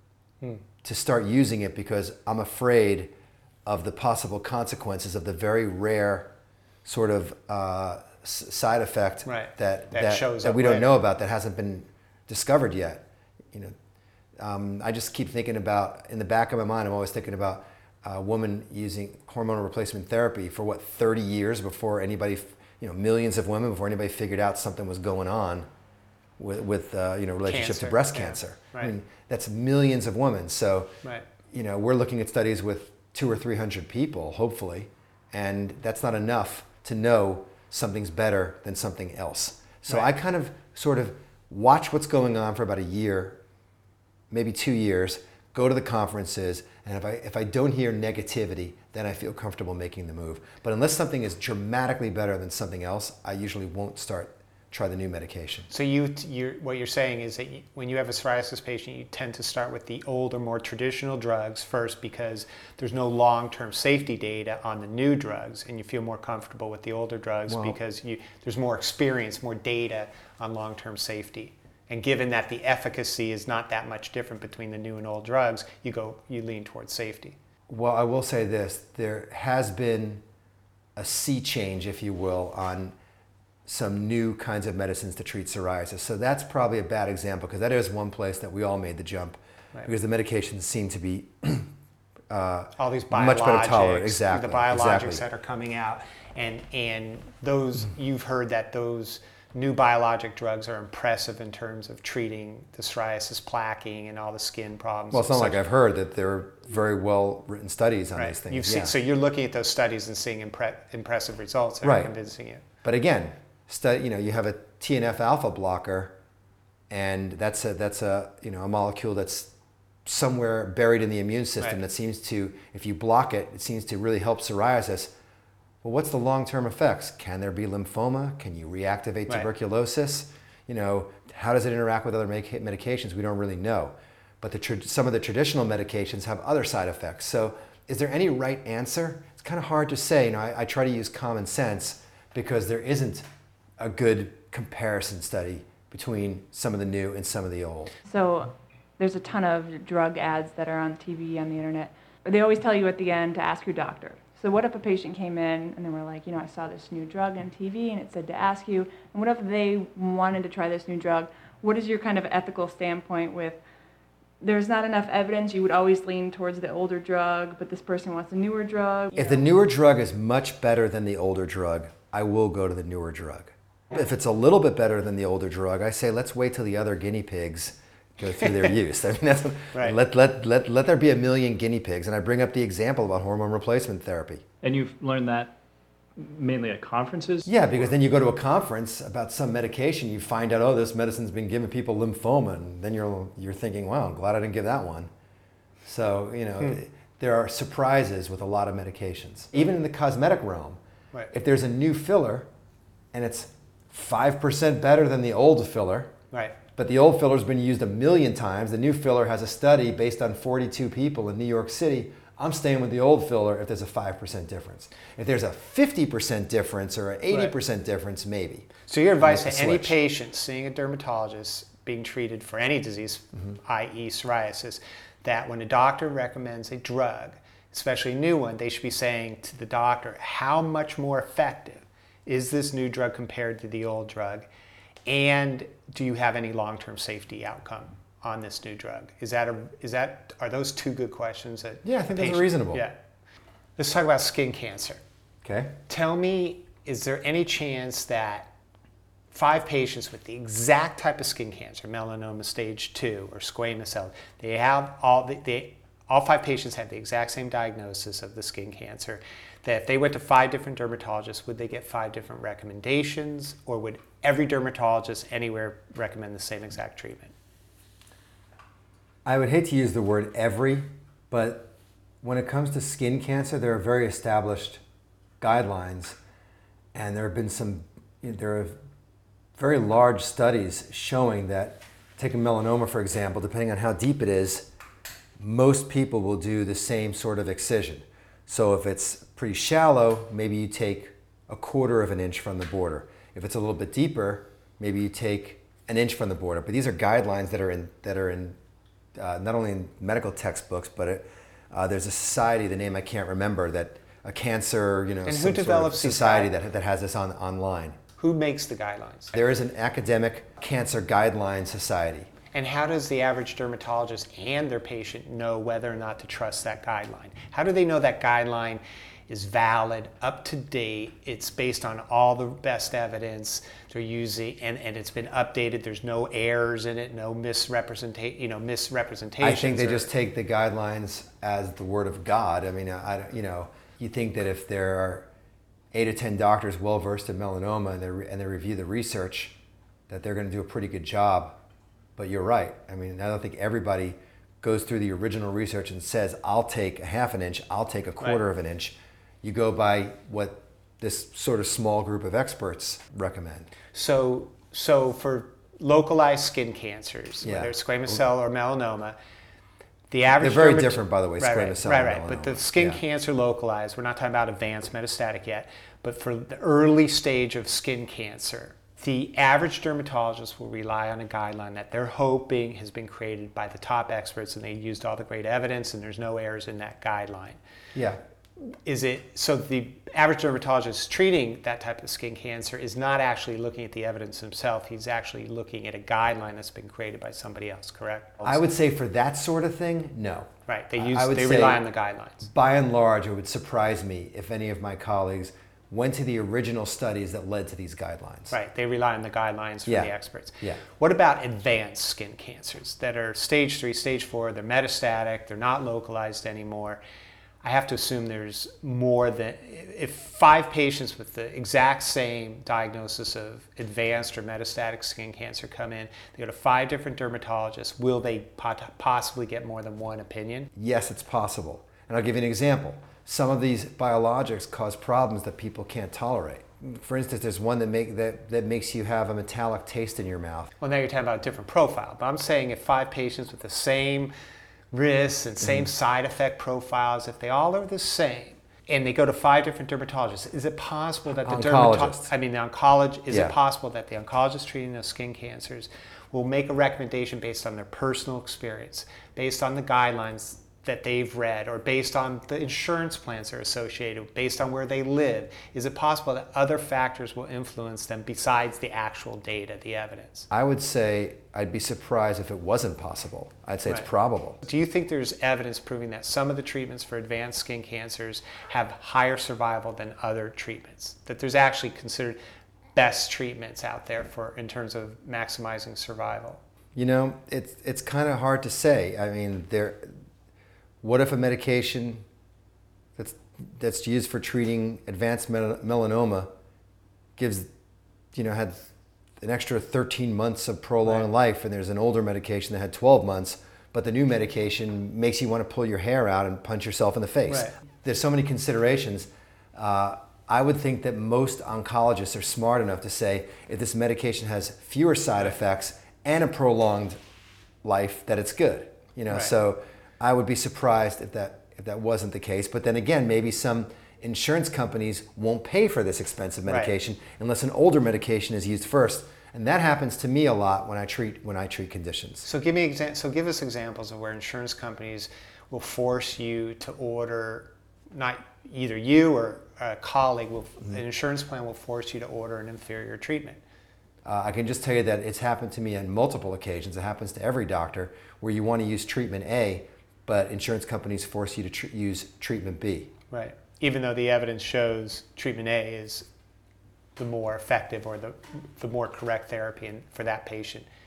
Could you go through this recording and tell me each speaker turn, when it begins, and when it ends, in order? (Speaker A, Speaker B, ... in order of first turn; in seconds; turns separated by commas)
Speaker A: 0.8-3.1, Speaker A: 3.6-6.3, Speaker A: 6.8-13.7, Speaker B: 9.2-10.9, Speaker A: 14.4-25.7, Speaker A: 26.4-30.9, Speaker B: 27.4-28.9, Speaker A: 31.5-43.4, Speaker A: 44.3-55.7, Speaker B: 55.7-77.4, Speaker A: 67.5-67.8, Speaker A: 77.7-80.2, Speaker A: 81.0-82.9, Speaker A: 83.7-91.7, Speaker A: 92.3-95.2, Speaker B: 92.8-105.6, Speaker A: 105.1-108.9, Speaker B: 108.1-112.6, Speaker A: 111.8-112.1, Speaker A: 112.8-116.2, Speaker A: 116.9-119.5, Speaker A: 120.0-125.1, Speaker A: 125.8-143.2, Speaker A: 143.8-147.9, Speaker C: 148.1-163.6, Speaker C: 164.4-169.4, Speaker A: 169.1-184.4, Speaker D: 184.6-185.6, Speaker D: 186.2-187.5, Speaker A: 187.4-195.1, Speaker A: 195.8-200.8, Speaker A: 201.3-202.5, Speaker A: 203.1-206.1, Speaker B: 206.3-206.6, Speaker A: 206.7-220.0, Speaker B: 218.9-234.5, Speaker B: 235.1-242.9, Speaker A: 241.8-242.9, Speaker B: 243.8-245.0, Speaker A: 245.4-245.8, Speaker B: 245.9-248.5, Speaker B: 249.3-267.3, Speaker A: 269.2-274.8, Speaker A: 275.4-276.2, Speaker A: 276.9-278.8, Speaker A: 279.6-284.7, Speaker A: 285.4-298.6, Speaker A: 299.1-308.0, Speaker B: 305.2-306.5, Speaker B: 308.2-309.4, Speaker A: 309.3-312.3, Speaker B: 312.5-330.1, Speaker A: 329.4-335.3, Speaker A: 335.9-339.6, Speaker A: 340.1-341.6, Speaker A: 342.2-353.7, Speaker B: 353.9-359.2, Speaker A: 357.4-358.1, Speaker B: 360.1-377.6, Speaker A: 360.4-363.0, Speaker A: 377.9-378.2, Speaker B: 378.6-388.6, Speaker A: 388.4-391.8, Speaker B: 390.7-392.5, Speaker A: 392.4-398.6, Speaker B: 398.5-407.0, Speaker A: 399.9-400.8, Speaker B: 407.6-420.7, Speaker A: 420.7-430.7, Speaker B: 430.8-434.3, Speaker B: 434.9-460.5, Speaker A: 435.6-435.9, Speaker A: 441.4-442.3, Speaker A: 443.3-443.5, Speaker A: 460.5-464.6, Speaker B: 464.6-472.4, Speaker B: 472.9-476.6, Speaker A: 476.9-480.2, Speaker A: 481.0-482.2, Speaker A: 483.1-486.5, Speaker A: 487.4-487.7, Speaker A: 488.3-507.2, Speaker B: 491.0-491.3, Speaker B: 497.5-497.7, Speaker A: 507.8-522.5, Speaker B: 516.7-516.9, Speaker B: 522.4-533.6, Speaker A: 534.2-543.1, Speaker B: 543.3-546.3, Speaker B: 547.1-550.9